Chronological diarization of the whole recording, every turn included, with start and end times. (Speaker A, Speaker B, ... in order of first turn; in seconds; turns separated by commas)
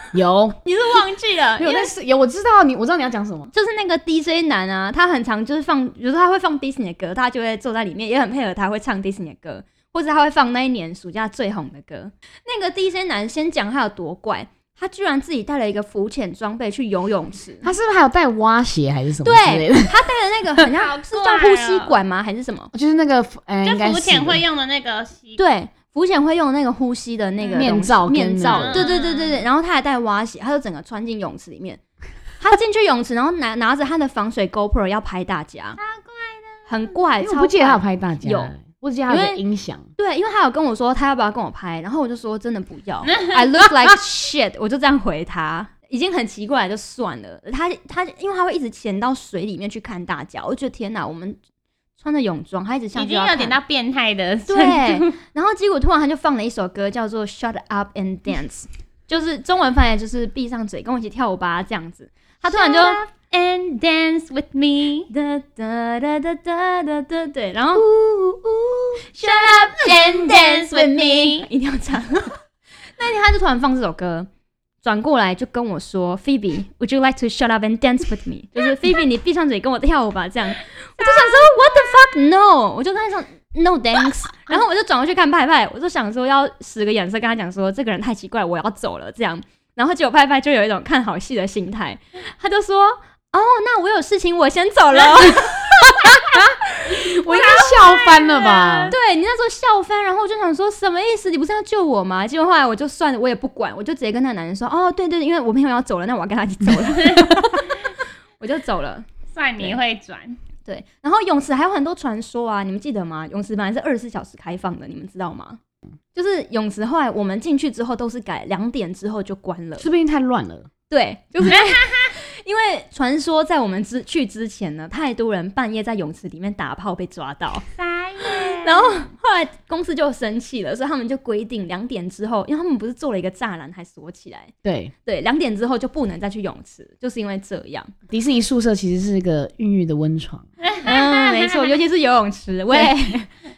Speaker A: 0.1-0.6, Speaker B: 0.7-1.9, Speaker C: 0.8-1.1, Speaker A: 1.6-3.5, Speaker B: 3.5-17.6, Speaker A: 17.6-19.9, Speaker B: 19.2-22.7, Speaker C: 20.7-21.9, Speaker A: 22.7-24.4, Speaker C: 23.6-25.4, Speaker B: 25.4-31.8, Speaker A: 27.5-28.9, Speaker C: 28.4-29.4, Speaker B: 32.4-35.8, Speaker C: 35.8-37.0, Speaker B: 36.7-38.5, Speaker A: 37.2-39.9, Speaker B: 39.1-39.4, Speaker B: 40.0-51.4, Speaker B: 52.0-53.6, Speaker C: 52.9-55.1, Speaker B: 54.5-63.0, Speaker C: 62.5-65.1, Speaker B: 65.1-67.8, Speaker A: 67.8-69.0, Speaker B: 69.1-72.4, Speaker C: 69.2-71.5, Speaker B: 73.0-74.3, Speaker B: 74.8-96.1, Speaker C: 81.0-81.5, Speaker A: 96.0-98.9, Speaker B: 97.3-97.7, Speaker C: 97.3-98.9, Speaker B: 98.9-107.7, Speaker B: 108.4-109.1, Speaker C: 109.3-110.4, Speaker B: 110.7-115.6, Speaker B: 116.1-119.9, Speaker A: 119.8-120.7, Speaker B: 120.9-127.7, Speaker C: 121.5-122.0, Speaker C: 127.8-129.1, Speaker B: 128.2-134.5, Speaker A: 134.6-134.9, Speaker B: 135.1-137.9, Speaker A: 138.1-140.5, Speaker C: 140.6-141.8, Speaker B: 140.8-143.3